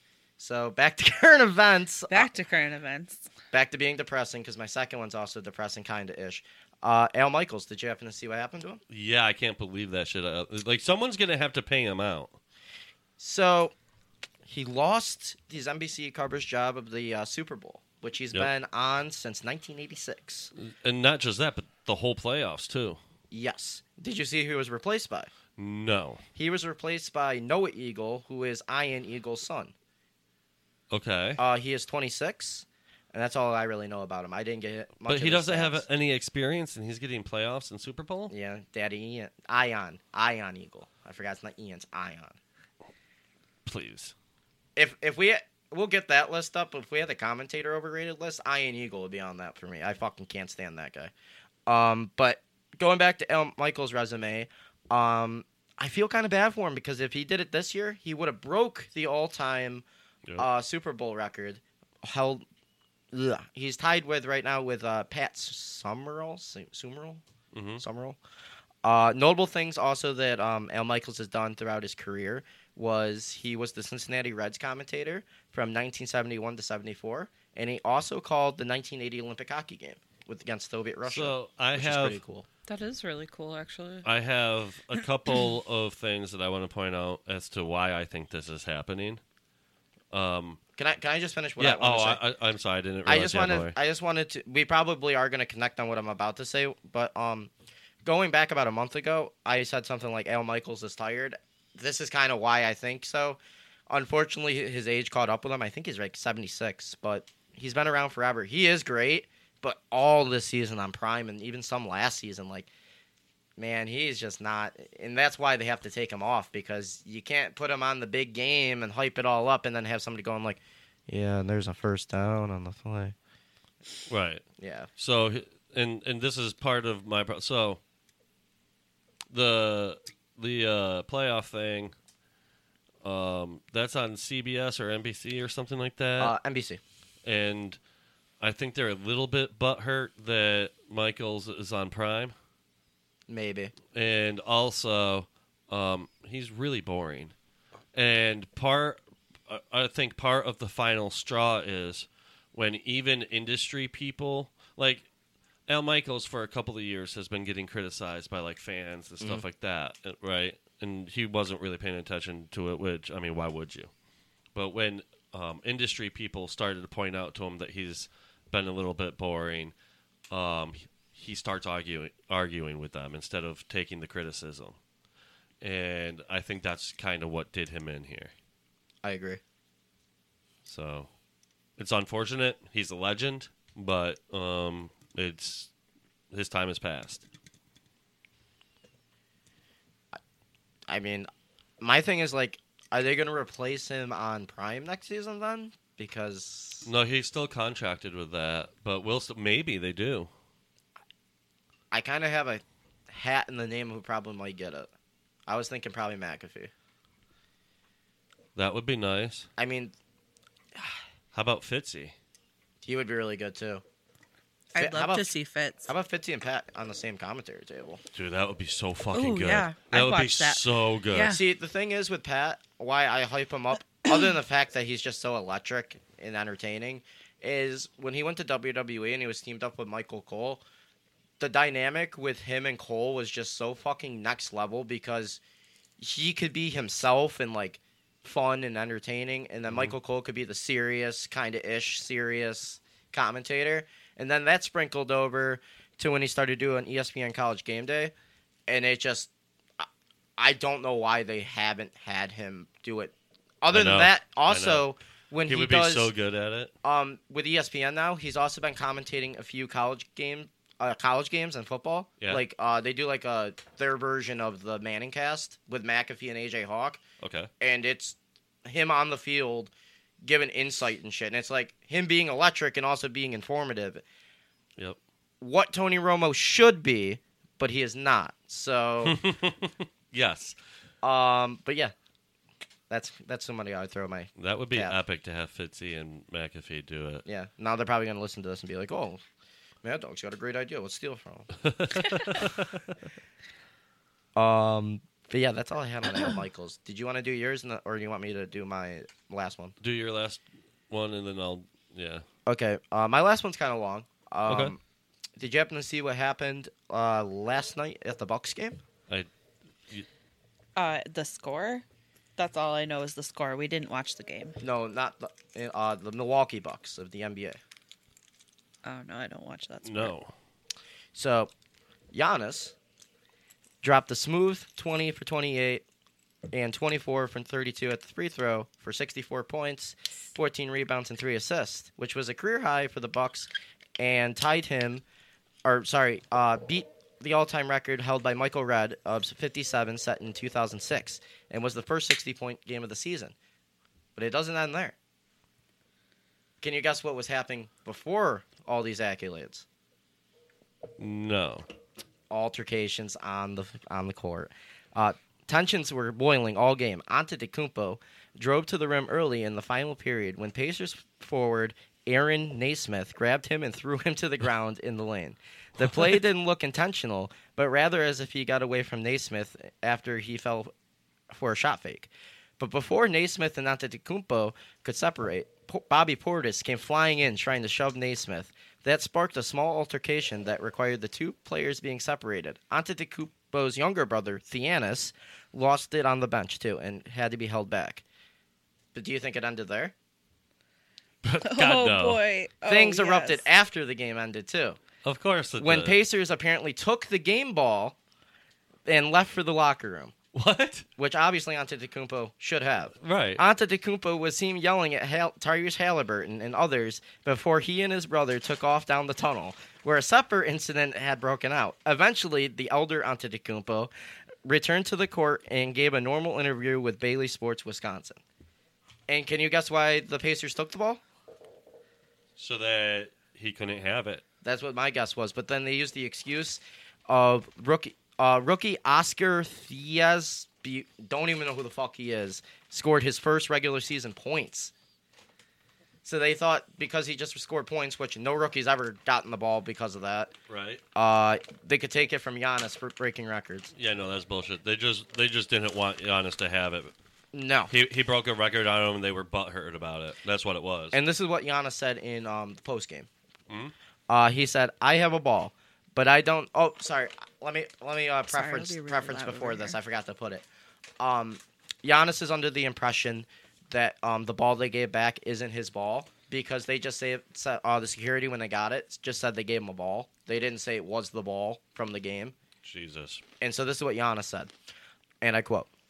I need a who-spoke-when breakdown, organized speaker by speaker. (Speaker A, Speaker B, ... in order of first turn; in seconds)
Speaker A: 0.4-2.3, 3.5-8.8, 13.2-13.8, 14.4-20.5, 23.3-25.3, 26.4-29.7, 31.4-35.8, 38.3-42.4, 44.8-51.1, 51.7-59.9, 60.4-62.4, 63.1-67.2, 67.8-68.2, 68.8-82.5, 90.8-92.2, 93.0-97.5, 98.0-112.7, 113.6-123.2, 124.6-124.9, 136.2-136.8, 143.3-143.7, 159.2-159.5, 179.0-179.4, 190.9-191.3, 191.8-196.9, 201.9-204.9, 205.5-206.7, 209.6-209.9, 212.8-213.8, 214.7-215.3, 215.9-218.0, 221.2-230.6, 231.4-235.4, 236.0-248.1, 248.7-256.1, 256.8-267.0, 267.6-269.7, 270.2-274.0, 275.4-279.2, 281.0-281.9, 282.9-285.0, 287.3-289.2, 289.8-291.5, 294.4-299.8, 302.5-304.8, 305.4-308.8, 314.6-317.6, 321.1-321.5, 322.1-322.8, 323.8-325.8, 326.5-335.0, 335.6-343.4, 344.2-344.9, 346.6-349.6, 352.3-370.7, 371.3-388.0, 388.9-389.9, 392.7-394.8, 395.6-398.0, 398.9-400.1, 401.0-413.9, 414.4-418.2, 419.1-421.0, 424.4-434.7, 436.0-440.3, 440.9-443.7, 447.3-447.7, 450.9-453.1, 454.1-460.4, 461.0-472.4, 473.4-474.5, 475.2-475.7
Speaker B: 2.1-3.3, 82.7-84.1, 214.8-215.9, 219.1-221.4, 310.8-311.9, 312.4-314.6, 318.8-320.1, 391.4-393.4, 458.3-459.8
Speaker C: 8.9-12.4, 20.6-23.0, 25.6-26.2, 30.9-31.4, 35.1-38.3, 43.7-44.1, 67.5-67.8, 81.1-82.2, 84.0-89.2, 90.1-90.6, 91.6-93.8, 124.1-124.4, 125.0-127.8, 129.3-131.9, 133.0-136.3, 137.3-137.8, 138.4-142.3, 143.9-147.3, 147.9-155.1, 155.7-163.9, 164.6-169.7, 170.3-174.8, 175.6-178.3, 180.7-181.1, 181.8-185.7, 186.3-187.2, 196.9-200.3, 208.6-209.5, 211.3-212.1, 218.1-221.4, 253.7-254.9, 255.5-256.7, 267.2-267.5, 279.0-280.6, 284.4-287.2, 291.6-293.0, 299.8-302.2, 304.5-304.8, 319.9-320.3, 351.0-351.7, 391.2-392.2, 395.0-396.0, 400.3-400.9, 403.0-403.4, 422.4-424.2, 440.5-440.8, 443.8-446.9, 447.7-451.0, 453.5-453.7, 472.6-473.2